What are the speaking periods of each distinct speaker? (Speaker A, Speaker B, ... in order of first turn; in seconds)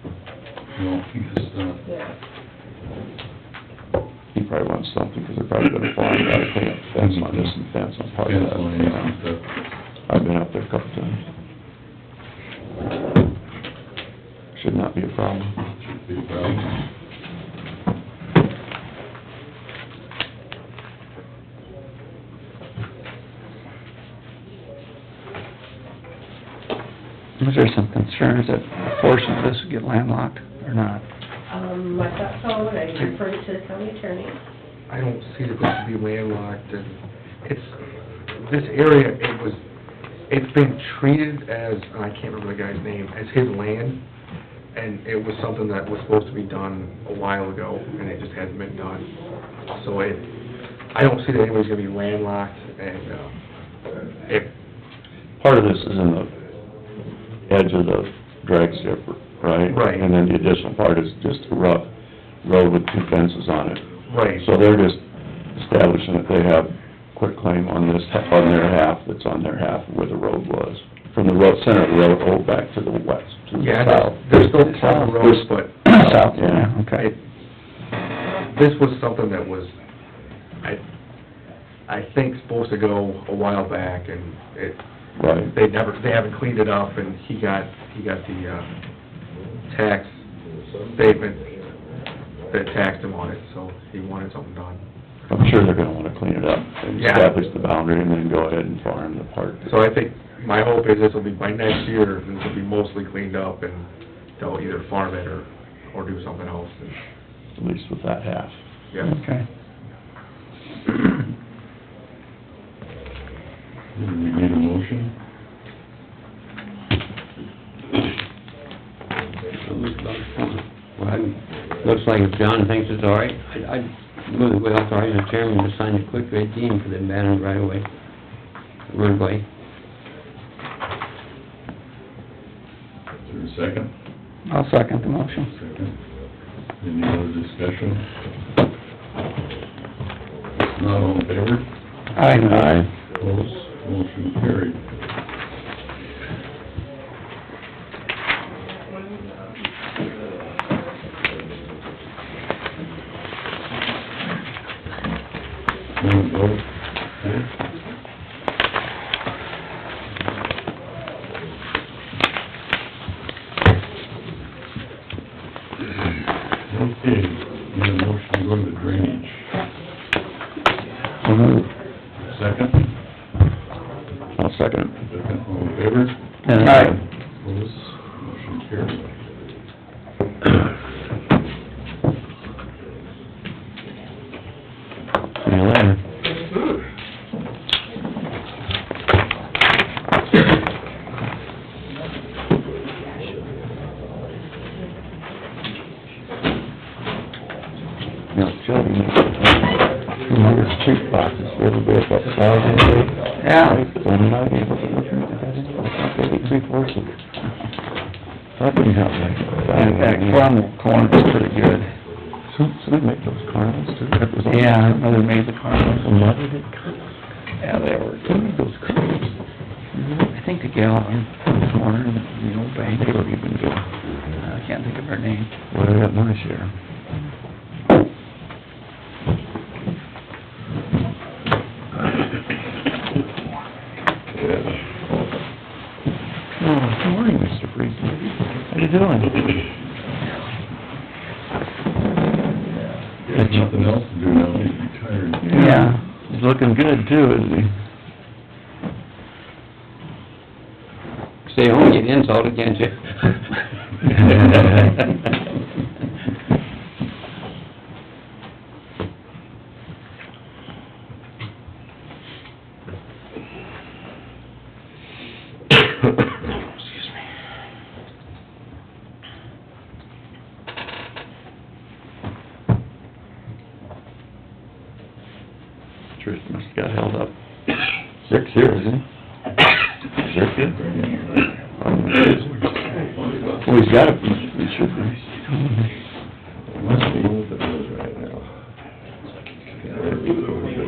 Speaker A: 0.8-1.8, 7.0-7.6, 8.2-9.4, 15.7-16.7, 113.9-115.1, 133.2-133.9, 135.4-135.9, 136.8-138.0, 140.6-141.7, 143.2-144.8, 156.0-156.7, 157.2-157.5, 166.7-169.5, 172.2-172.8, 175.0-179.2, 234.3-234.8, 243.2-245.9, 280.9-281.2, 282.1-283.8
Speaker B: 1.8-2.1, 31.5-34.4
Speaker C: 4.3-9.1, 10.1-11.2, 14.5-15.5, 55.4-56.3, 57.5-61.9, 62.4-65.0, 65.5-75.5, 76.1-76.7, 85.2-85.5, 95.3-99.8, 107.6-108.6, 142.4-142.9, 174.4-174.9, 176.5-177.0, 185.4-186.0, 198.3-207.2, 208.6-210.5, 212.5-215.2, 216.0-217.0, 218.2-219.3, 219.9-220.3, 222.8-223.9, 225.7-226.7, 236.6-239.4, 243.3-244.0, 245.4-247.7, 254.2-254.9, 276.2-277.3, 278.2-279.0, 280.2-280.9, 281.8-282.4, 283.6-285.3, 287.0-287.3, 290.0-290.4
Speaker D: 27.4-31.0, 75.8-77.1, 109.0-109.4, 134.4-135.5, 142.1-142.8, 171.2-171.6, 176.4-176.9, 203.4-203.8, 209.7-212.0, 214.5-216.1, 217.6-218.6, 220.3-223.2, 224.4-225.5, 245.5-246.0, 285.5-285.8
Speaker E: 34.9-37.7, 38.4-39.6, 40.3-44.0, 44.7-49.1, 49.7-50.3, 50.9-53.3, 59.7-60.1, 64.1-64.5, 73.6-76.2, 78.3-79.7, 81.9-84.8, 85.4-88.7, 89.7-90.2, 90.9-91.6, 92.5-94.8, 97.0-97.3, 99.7-103.8, 104.4-107.0
Speaker F: 119.6-127.9, 128.9-129.5, 251.4-253.3, 254.2-254.8